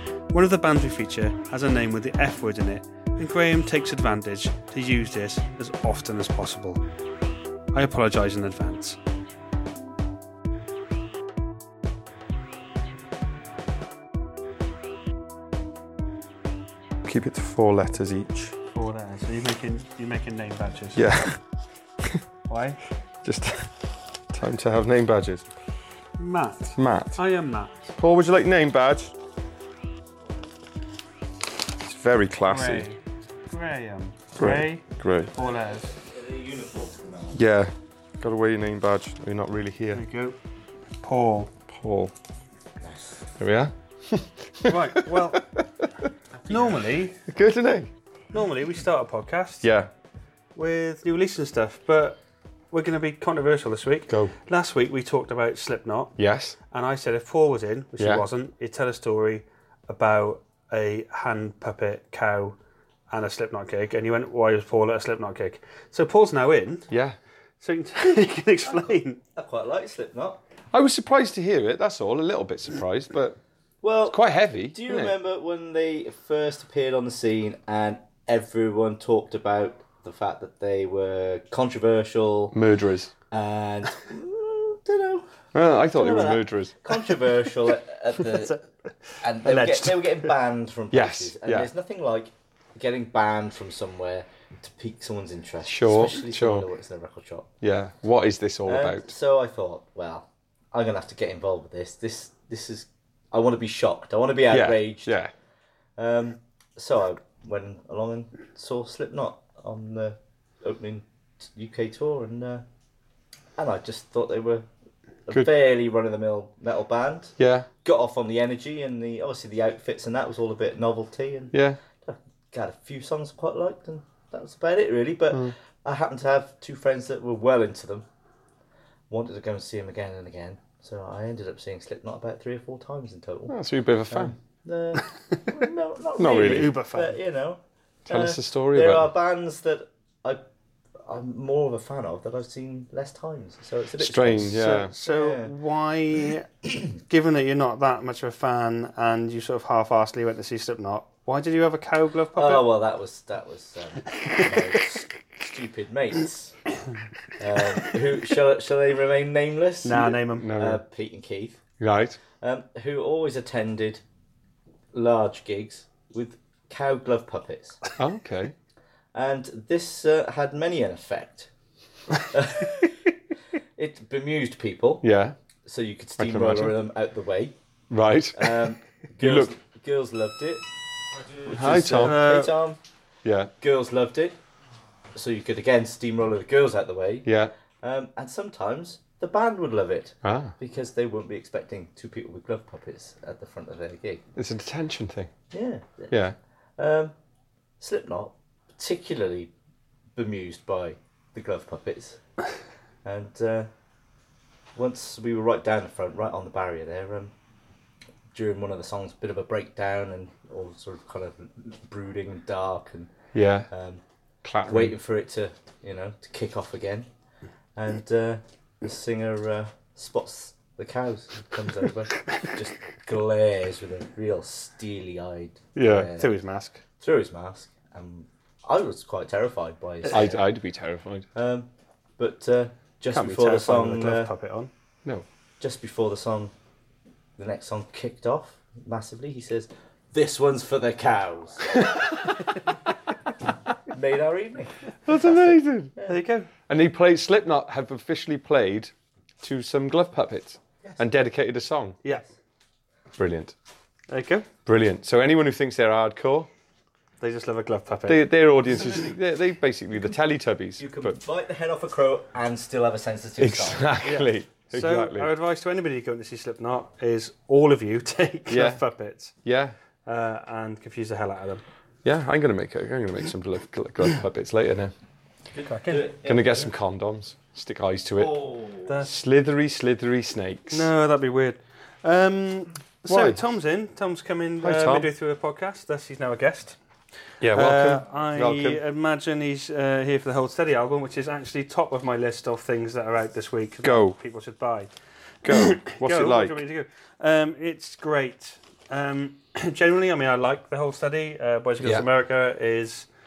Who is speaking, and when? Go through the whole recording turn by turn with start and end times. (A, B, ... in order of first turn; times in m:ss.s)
0:00.3-0:06.8 A
0:07.7-0:09.0 A
0:17.0-0:18.5 B
0:18.7-0:21.0 A
0:20.9-0:21.4 B
0:22.5-0:22.8 A
0:23.2-0:25.5 B
0:26.2-0:27.9 A
0:26.8-0:27.2 B
0:28.0-0:29.1 B
0:31.8-0:32.8 B
0:32.4-0:35.9 A
0:34.4-0:35.3 B
0:35.5-0:37.4 C
0:37.3-0:40.0 B
0:39.9-0:40.4 A
0:41.0-0:41.5 A
0:41.7-0:42.1 B
0:42.8-0:43.3 C
0:43.4-0:46.1 B
0:44.6-0:45.4 A
0:46.4-0:46.8 C
0:46.4-0:47.2 A
0:47.2-0:47.9 B
0:48.3-0:49.7 A
0:49.6-0:49.9 B
0:50.6-0:52.2 A
0:52.7-0:56.2 A
0:56.2-0:56.6 B
0:56.7-1:02.6 A
0:58.0-0:58.2 B
1:03.1-1:06.9 A
1:06.9-1:07.2 B
1:07.6-1:09.2 A
1:09.4-1:10.4 C
1:10.7-1:13.4 B
1:13.8-1:22.5 C
1:14.1-1:15.1 B
1:22.5-1:23.1 B
1:23.3-1:28.6 C
1:25.5-1:26.7 B
1:29.2-1:37.5 C
1:29.4-1:30.0 A
1:30.9-1:31.7 B
1:35.6-1:36.6 B
1:37.6-1:39.1 B
1:38.6-1:45.2 C
1:44.5-1:45.3 B
1:46.0-1:52.6 C
1:53.6-1:54.6 C
1:55.2-2:08.0 C
1:57.4-1:57.7 B
2:01.5-2:01.8 B
2:09.1-2:13.6 C
2:13.5-2:14.3 B
2:14.1-2:20.4 C
2:16.2-2:16.7 B
2:16.2-2:17.2 A
2:18.1-2:19.1 B
2:21.0-2:25.5 C
2:24.0-2:24.9 B
2:24.5-2:32.6 A
2:32.4-2:36.6 C
2:34.1-2:34.5 A
2:37.4-2:41.6 C
2:39.8-2:40.5 A
2:40.4-2:40.8 B
2:41.8-2:42.2 B
2:42.4-2:44.0 C
2:44.9-2:47.9 C
2:48.0-2:48.5 B
2:49.1-2:51.5 C
2:52.1-2:53.1 C
2:53.8-2:55.0 C
2:55.0-2:55.4 B
2:55.6-2:57.5 C
2:56.2-2:56.8 B
2:57.9-2:59.5 B
2:58.3-3:00.6 C
3:01.3-3:02.8 C
3:01.4-3:02.2 B
3:02.0-3:02.5 A
3:03.2-3:03.5 B
3:03.6-3:04.4 C
3:05.1-3:14.2 C
3:07.2-3:07.5 B
3:10.2-3:10.5 B
3:14.4-3:15.3 B
3:15.5-3:16.2 C
3:16.8-3:17.1 C
3:17.8-3:19.5 C
3:20.2-3:22.2 C
3:23.0-3:23.7 C
3:24.8-3:27.3 C
3:28.3-3:33.1 C
3:33.3-3:33.7 B
3:33.7-3:34.0 C
3:34.4-3:35.0 B
3:34.6-3:37.1 C
3:37.8-3:46.3 C
3:45.8-3:46.1 B
3:46.0-3:46.8 A
3:47.0-3:50.4 C
3:50.1-3:51.3 B
3:51.3-3:54.3 C
3:53.1-3:54.7 A
3:55.6-3:56.5 C
3:57.4-4:01.8 C
4:03.9-4:05.0 C
4:05.0-4:05.9 B
4:06.0-4:06.5 A
4:06.7-4:12.0 B
4:13.2-4:13.5 B
4:14.1-4:14.5 A
4:14.6-4:16.5 B
4:17.2-4:18.2 A
4:18.1-4:21.2 B
4:20.8-4:24.0 C
4:23.4-4:25.3 B
4:24.0-4:29.3 A
4:28.5-4:28.8 B
4:29.4-4:29.7 B
4:30.0-4:31.6 A
4:32.0-4:34.9 B
4:35.5-4:36.7 C
4:35.6-4:36.1 A
4:36.2-4:38.3 B
4:38.2-4:39.0 C
4:38.8-4:39.1 A
4:39.0-4:40.9 B
4:40.7-4:46.8 A
4:43.0-4:43.4 B
4:44.6-4:45.1 B
4:47.4-4:48.8 B
4:47.5-4:54.9 A
4:53.8-4:54.2 B
4:55.4-4:56.6 B
4:55.4-5:03.1 A